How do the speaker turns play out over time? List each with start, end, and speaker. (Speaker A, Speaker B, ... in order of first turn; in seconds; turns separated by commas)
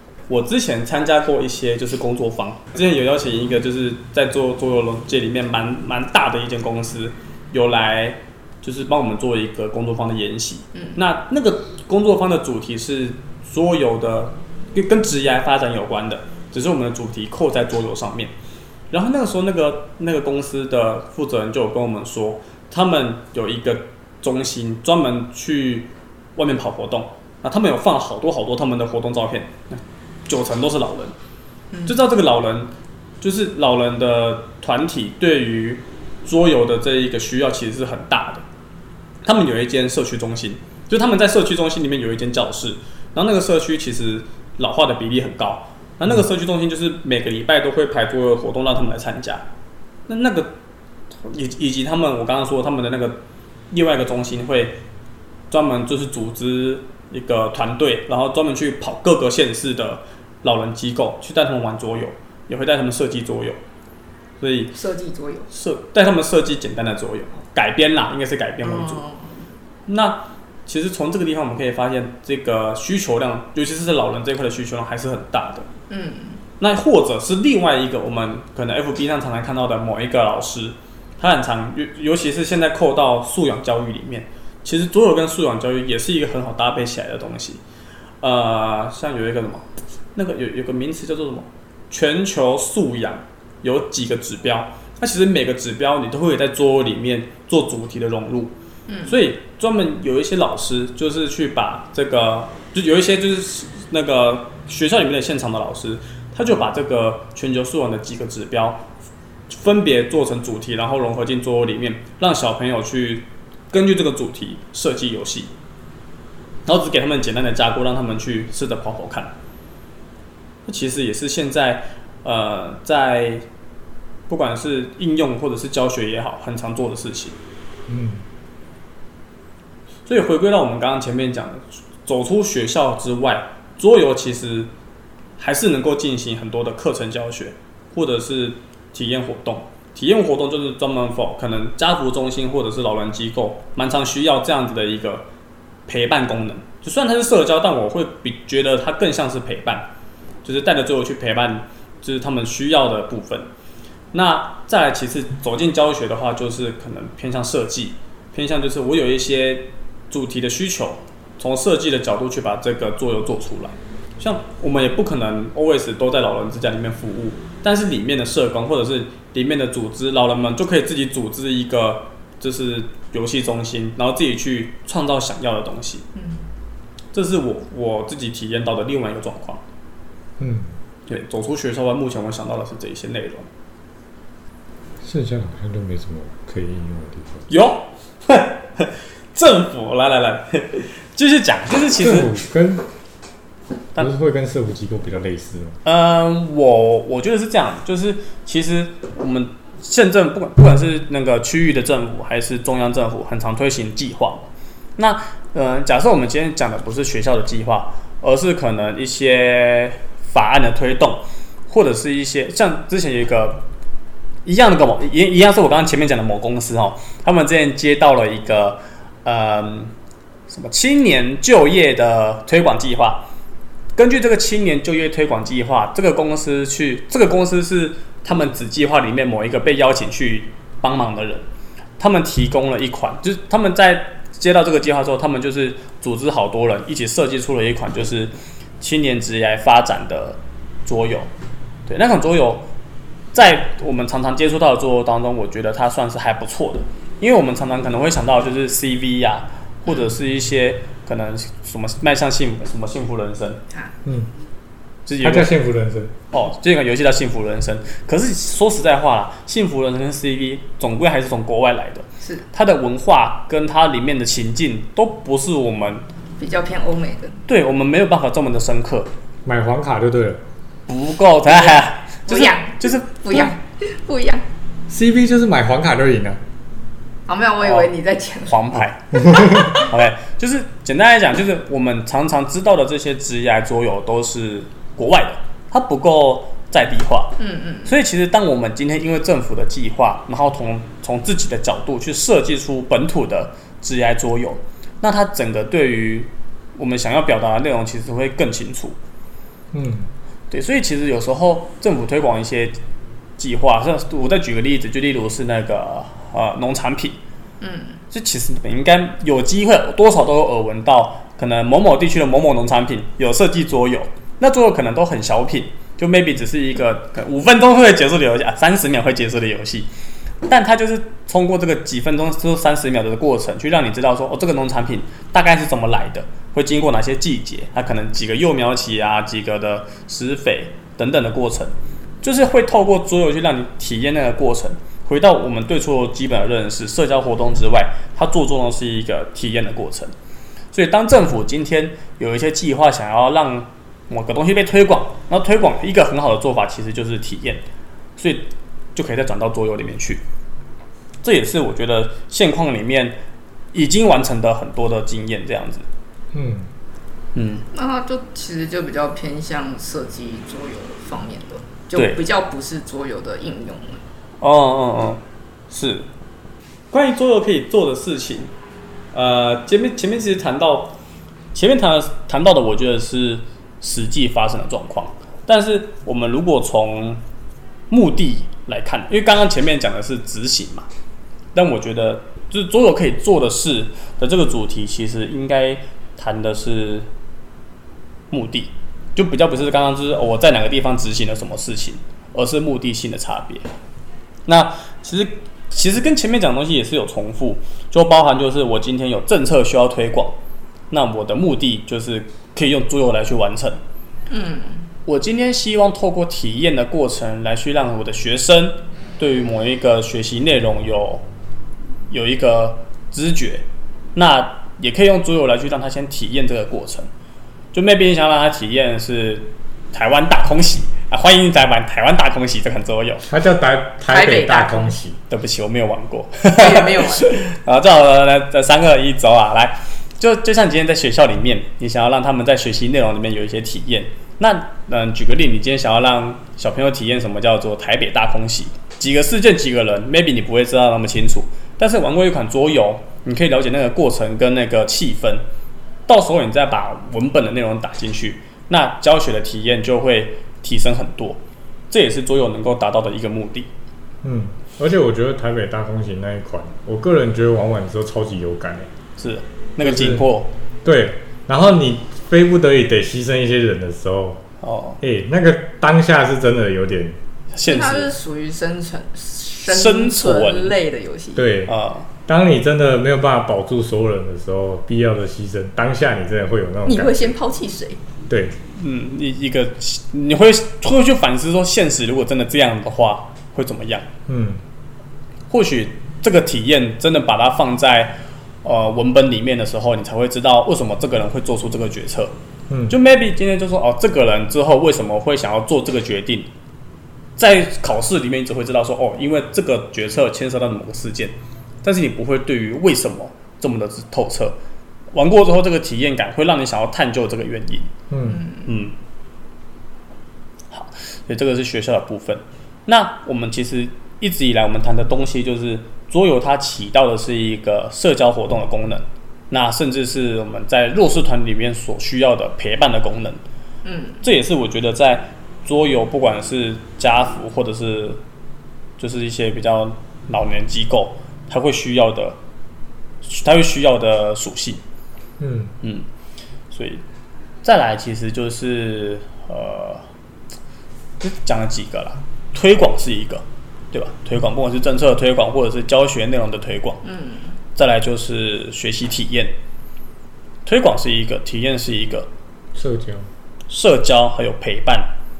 Speaker A: 0.3-18.3, Speaker A: 18.9-31.1, Speaker B: 31.7-32.0, Speaker A: 31.9-38.4, Speaker A: 39.2-49.4, Speaker A: 50.1-50.5, Speaker A: 51.2-53.2, Speaker A: 53.7-54.8, Speaker A: 55.5-63.6, Speaker A: 64.4-64.7, Speaker B: 64.7-65.5, Speaker A: 65.5-69.0, Speaker B: 68.6-69.3, Speaker A: 69.9-75.7, Speaker B: 75.9-76.4, Speaker A: 76.6-87.6, Speaker A: 88.2-98.5, Speaker B: 98.9-99.2, Speaker A: 99.1-108.8, Speaker A: 109.5-115.5, Speaker A: 116.7-119.3, Speaker A: 120.7-123.5, Speaker A: 124.3-127.3, Speaker C: 127.9-128.2, Speaker A: 130.1-134.7, Speaker A: 135.4-145.2, Speaker A: 145.9-149.9, Speaker A: 150.4-153.5, Speaker A: 154.1-176.0, Speaker B: 176.1-176.4, Speaker A: 177.1-179.6, Speaker C: 180.4-180.7, Speaker A: 181.1-183.5, Speaker C: 185.0-187.5, Speaker A: 187.5-192.3, Speaker C: 192.0-192.8, Speaker C: 193.9-195.8, Speaker A: 195.8-204.4, Speaker A: 205.0-213.6, Speaker A: 214.4-219.9, Speaker A: 220.5-223.3, Speaker A: 223.9-231.4, Speaker A: 232.0-241.3, Speaker A: 241.9-242.7, Speaker A: 243.3-253.6, Speaker B: 249.9-250.1, Speaker C: 254.0-254.3, Speaker A: 255.1-255.5, Speaker C: 255.2-256.1, Speaker A: 256.3-266.0, Speaker B: 266.4-267.4, Speaker A: 267.5-269.1, Speaker C: 269.4-270.4, Speaker A: 270.9-273.5, Speaker B: 271.5-274.4, Speaker C: 274.9-276.4, Speaker B: 277.3-278.6, Speaker A: 277.6-277.9, Speaker A: 278.5-298.9, Speaker C: 279.2-279.7, Speaker B: 279.2-279.8, Speaker B: 287.4-287.9, Speaker C: 299.7-300.1, Speaker A: 300.5-302.8, Speaker A: 303.4-307.2, Speaker B: 307.6-308.0, Speaker A: 308.1-319.9, Speaker A: 320.4-340.1, Speaker A: 340.7-347.6, Speaker A: 348.2-350.2, Speaker A: 351.2-353.2, Speaker A: 353.7-355.9, Speaker C: 356.3-356.7, Speaker A: 357.3-357.6, Speaker B: 357.7-364.0, Speaker A: 361.9-362.2, Speaker A: 364.4-366.1, Speaker A: 366.9-368.5, Speaker A: 369.1-370.9, Speaker A: 371.5-377.2, Speaker A: 377.9-380.9, Speaker A: 381.5-387.1, Speaker A: 388.3-393.7, Speaker A: 394.5-400.4, Speaker A: 400.9-403.8, Speaker B: 404.3-404.8, Speaker A: 405.1-411.2, Speaker A: 412.1-413.6, Speaker A: 414.1-417.1, Speaker A: 417.7-423.2, Speaker C: 423.3-425.2, Speaker B: 424.1-424.9, Speaker A: 425.3-445.4, Speaker B: 426.5-427.4, Speaker A: 446.1-453.7, Speaker C: 454.2-458.9, Speaker A: 459.2-460.5, Speaker C: 459.8-460.2, Speaker C: 460.8-464.4, Speaker A: 464.6-465.0, Speaker C: 465.0-467.2, Speaker A: 467.5-468.1, Speaker B: 467.6-471.5, Speaker A: 469.7-470.8, Speaker C: 471.4-471.7, Speaker A: 471.7-472.1, Speaker C: 472.2-477.3, Speaker B: 476.9-478.0, Speaker C: 478.3-478.6, Speaker A: 478.8-484.1, Speaker C: 484.3-484.6, Speaker A: 485.5-492.3, Speaker C: 492.7-492.9, Speaker A: 492.9-496.5, Speaker A: 497.4-504.6, Speaker A: 505.1-507.9, Speaker C: 508.1-508.4, Speaker B: 508.3-508.6, Speaker A: 508.6-508.9, Speaker A: 510.7-523.4, Speaker B: 523.8-524.2, Speaker A: 524.2-528.2, Speaker A: 529.0-532.4, Speaker A: 533.2-534.8, Speaker C: 535.4-535.7, Speaker A: 535.8-536.1, Speaker A: 536.7-537.0, Speaker A: 537.6-540.1, Speaker A: 541.2-547.0, Speaker B: 547.0-547.5, Speaker A: 547.7-549.5, Speaker A: 550.6-552.3, Speaker C: 552.7-553.3, Speaker A: 553.7-555.1